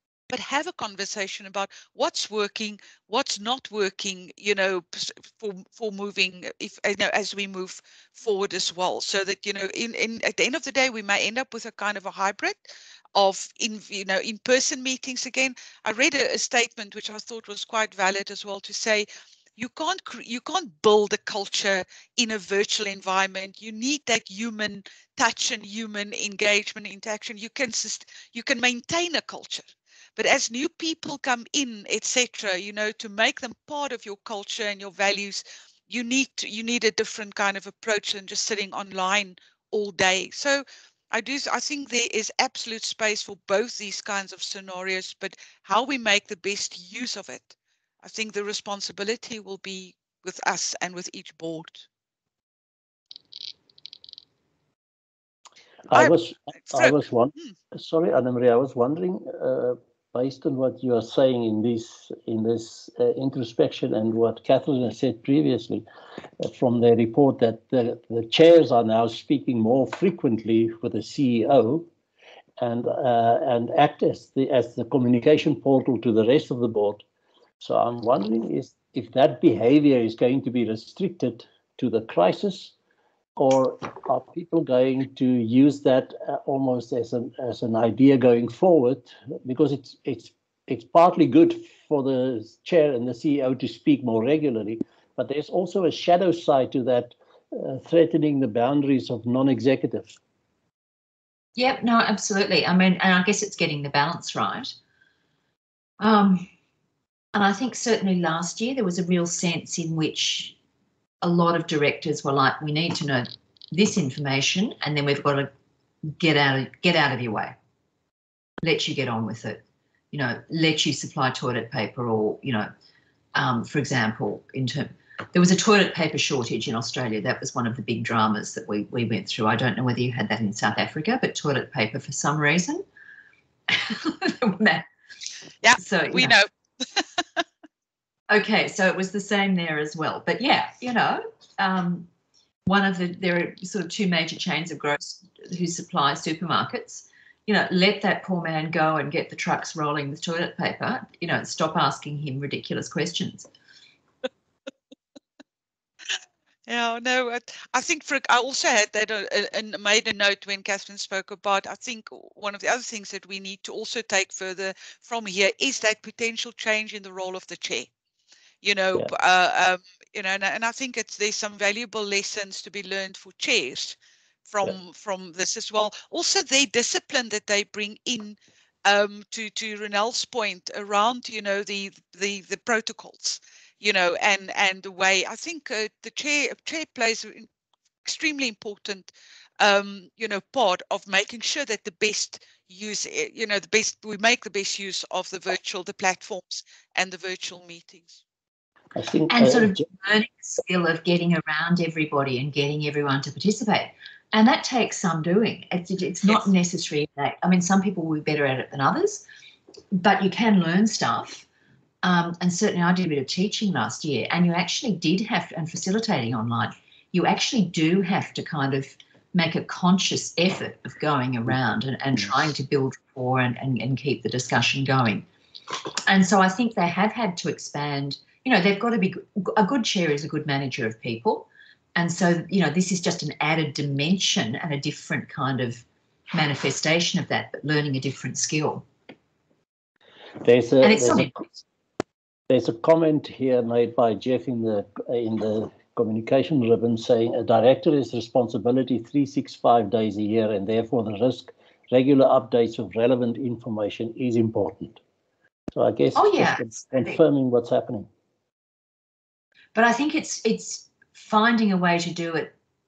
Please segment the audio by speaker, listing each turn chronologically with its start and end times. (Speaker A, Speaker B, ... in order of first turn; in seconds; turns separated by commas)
Speaker A: 0.3-51.9, Speaker B: 55.9-65.9, Speaker A: 56.7-57.5, Speaker B: 66.4-71.9, Speaker B: 72.6-77.0, Speaker B: 77.6-82.7, Speaker B: 83.4-100.2, Speaker C: 101.6-104.8, Speaker C: 106.0-106.5, Speaker C: 107.3-110.6, Speaker C: 111.2-115.5, Speaker C: 116.2-117.5, Speaker C: 118.6-119.6, Speaker C: 120.1-122.7, Speaker C: 123.3-132.8, Speaker C: 133.7-134.9, Speaker A: 135.6-137.4, Speaker C: 135.8-136.4, Speaker C: 138.3-142.1, Speaker C: 142.7-153.5, Speaker A: 156.7-167.9, Speaker A: 168.6-187.5, Speaker A: 188.1-198.2, Speaker B: 198.9-199.8, Speaker C: 199.3-209.2, Speaker C: 209.9-211.5, Speaker C: 212.0-225.3, Speaker C: 226.1-238.9, Speaker B: 240.4-241.4, Speaker C: 240.8-241.6, Speaker B: 242.5-255.0, Speaker B: 255.7-258.1, Speaker C: 256.1-257.2, Speaker C: 259.8-262.5